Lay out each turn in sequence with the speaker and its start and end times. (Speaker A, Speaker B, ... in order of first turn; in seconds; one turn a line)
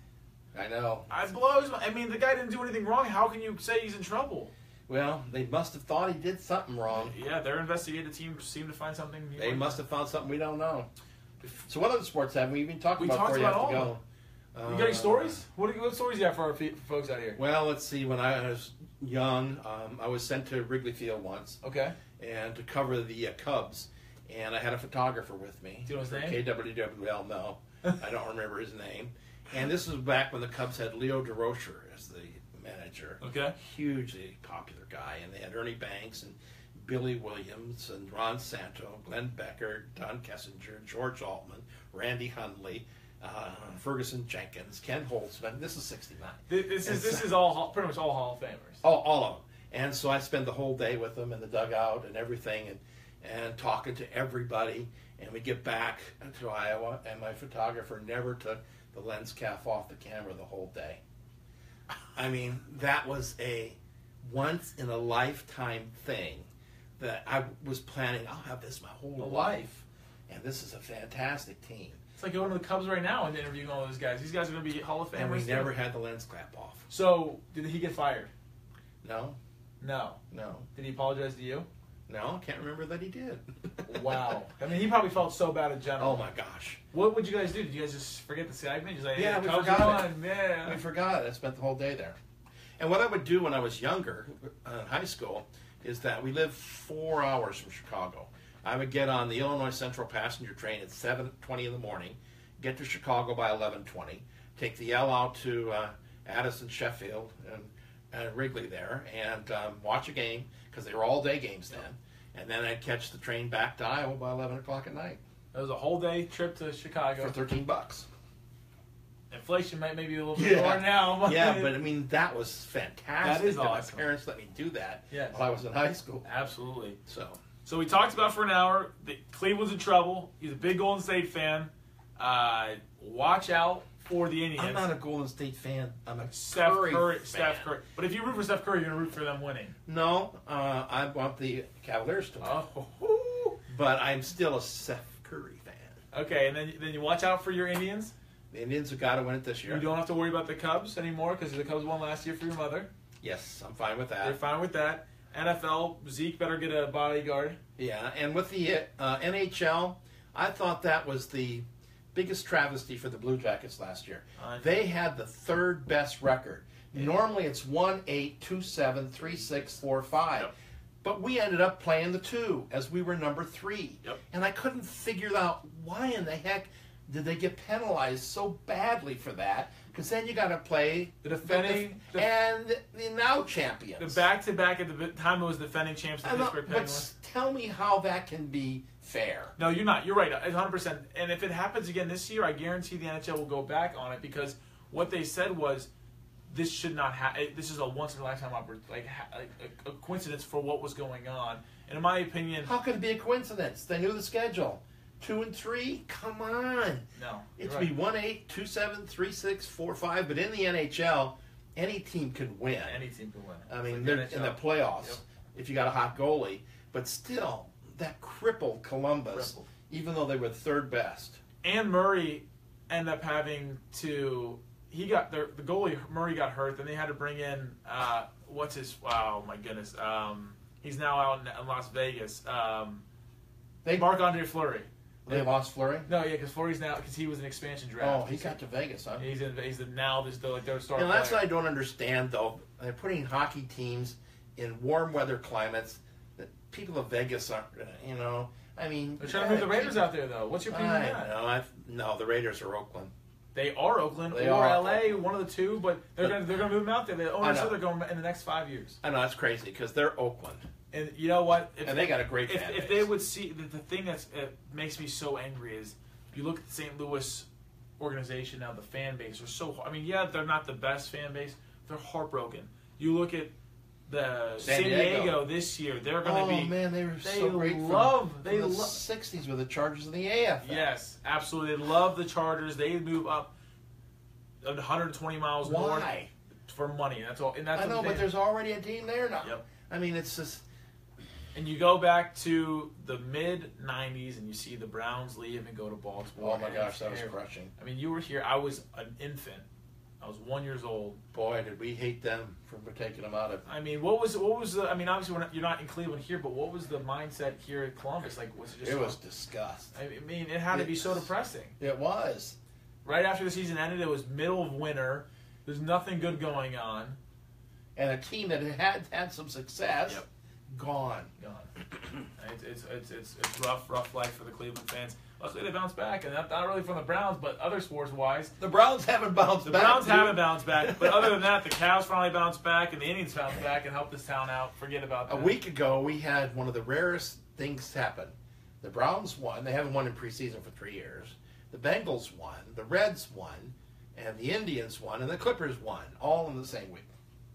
Speaker A: 0.5-1.1
Speaker B: 1.1-4.5
Speaker A: 4.9-7.1
Speaker B: 6.9-9.8
Speaker A: 9.4-10.9
Speaker A: 11.6-14.0
Speaker B: 13.0-13.9
Speaker A: 14.5-15.4
Speaker B: 14.6-17.4
Speaker A: 17.4-21.6
Speaker B: 21.6-22.0
Speaker A: 22.2-47.3
Speaker B: 25.9-26.4
Speaker B: 33.2-33.5
Speaker B: 46.5-48.8
Speaker A: 48.8-61.0
Speaker A: 62.1-72.0
Speaker B: 69.2-69.7
Speaker B: 72.2-75.7
Speaker A: 75.1-76.9
Speaker B: 76.9-78.3
Speaker A: 79.0-79.4
Speaker B: 79.8-80.2
Speaker A: 80.3-80.7
Speaker B: 80.7-81.7
Speaker A: 82.1-84.3
Speaker B: 83.8-86.3
Speaker A: 86.0-86.8
Speaker B: 86.9-90.8
Speaker A: 89.1-92.2
Speaker A: 92.8-115.2
Speaker B: 115.5-117.3
Speaker A: 117.2-118.1
Speaker B: 119.3-121.7
Speaker A: 120.3-126.2
Speaker B: 123.2-124.0
Speaker B: 125.1-125.4
Speaker B: 126.2-127.0
Speaker A: 127.0-127.4
Speaker B: 127.6-134.9
Speaker A: 134.6-137.7
Speaker B: 136.3-139.8
Speaker A: 139.8-142.6
Speaker B: 142.4-143.6
Speaker A: 143.7-146.0
Speaker B: 146.1-148.1
Speaker A: 148.5-149.8
Speaker B: 149.7-152.9
Speaker A: 153.2-154.4
Speaker B: 154.2-157.6
Speaker A: 157.8-170.5
Speaker B: 164.4-164.7
Speaker A: 171.0-184.2
Speaker B: 181.2-182.3
Speaker B: 184.0-187.1
Speaker A: 186.2-189.5
Speaker B: 189.6-195.9
Speaker B: 196.5-202.7
Speaker A: 202.6-213.0
Speaker B: 207.1-207.9
Speaker B: 212.8-215.2
Speaker A: 213.7-221.4
Speaker B: 219.3-219.7
Speaker B: 221.6-233.0
Speaker A: 233.8-234.1
Speaker B: 233.9-235.5
Speaker A: 235.2-236.1
Speaker B: 236.1-238.6
Speaker A: 238.0-239.3
Speaker B: 239.2-241.5
Speaker A: 240.9-250.1
Speaker B: 249.2-251.3
Speaker A: 250.7-253.1
Speaker B: 253.5-259.0
Speaker A: 254.3-255.3
Speaker A: 257.4-257.8
Speaker A: 259.0-260.6
Speaker B: 260.9-267.5
Speaker A: 261.8-263.1
Speaker B: 268.0-273.5
Speaker B: 274.1-279.0
Speaker A: 274.6-275.4
Speaker A: 276.2-280.9
Speaker B: 280.6-283.5
Speaker B: 284.6-286.1
Speaker A: 285.6-286.3
Speaker B: 286.7-288.3
Speaker A: 287.7-290.6
Speaker B: 291.5-299.6
Speaker A: 296.4-297.7
Speaker B: 300.2-301.2
Speaker A: 301.3-303.6
Speaker B: 303.6-309.2
Speaker A: 308.8-309.9
Speaker B: 309.9-311.8
Speaker A: 310.7-311.3
Speaker A: 311.8-312.6
Speaker B: 313.0-317.2
Speaker A: 317.9-321.3
Speaker B: 321.4-321.7
Speaker B: 322.4-328.5
Speaker A: 328.6-331.4
Speaker B: 329.6-335.5
Speaker A: 335.3-347.1